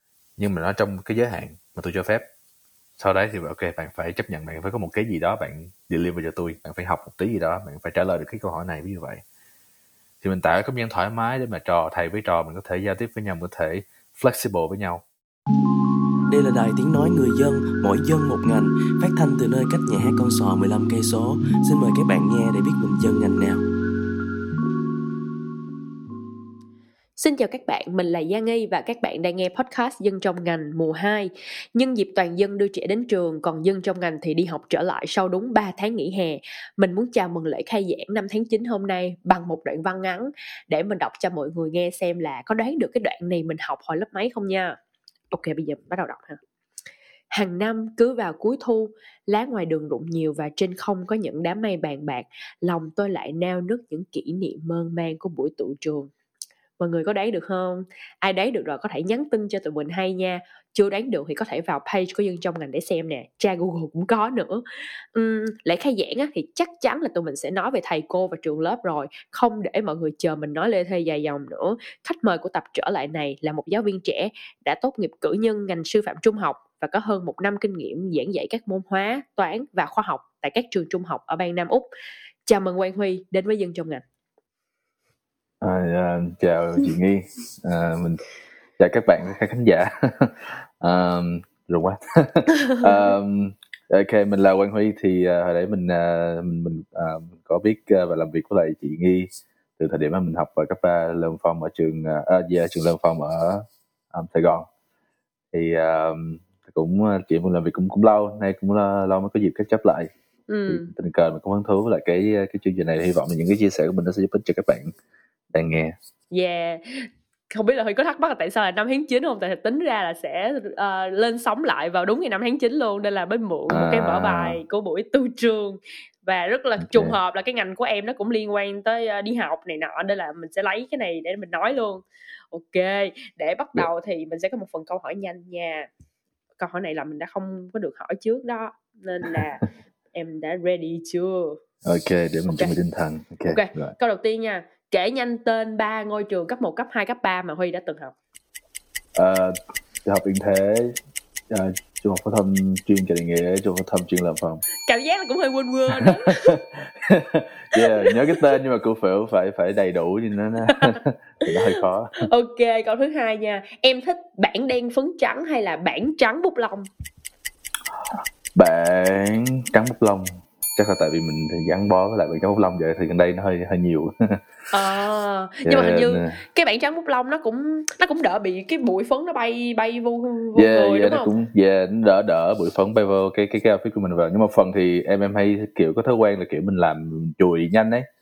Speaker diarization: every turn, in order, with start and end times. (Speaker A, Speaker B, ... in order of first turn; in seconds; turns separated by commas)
Speaker A: 0.4-2.2, Speaker A: 3.0-9.2, Speaker A: 10.2-15.0, Speaker B: 16.3-23.6, Speaker C: 27.2-44.8, Speaker C: 45.3-46.4, Speaker C: 47.3-56.1, Speaker C: 56.8-81.9, Speaker C: 82.5-84.0, Speaker A: 85.6-88.2, Speaker A: 88.8-104.7, Speaker C: 92.7-93.1, Speaker A: 105.5-110.1, Speaker C: 110.5-110.9, Speaker A: 110.7-114.9, Speaker A: 115.5-115.9, Speaker C: 116.3-135.9, Speaker A: 123.7-124.6, Speaker A: 126.8-127.2, Speaker C: 136.6-139.6, Speaker C: 140.1-141.6, Speaker A: 141.8-143.9, Speaker C: 142.5-142.7, Speaker C: 143.5-148.1, Speaker A: 149.2-150.9, Speaker A: 151.5-154.6, Speaker C: 154.8-156.6, Speaker A: 155.9-162.3, Speaker C: 157.7-158.4, Speaker C: 160.7-161.0, Speaker C: 161.5-166.9, Speaker A: 168.1-174.4, Speaker C: 174.7-181.3, Speaker A: 175.6-176.4, Speaker A: 180.5-188.1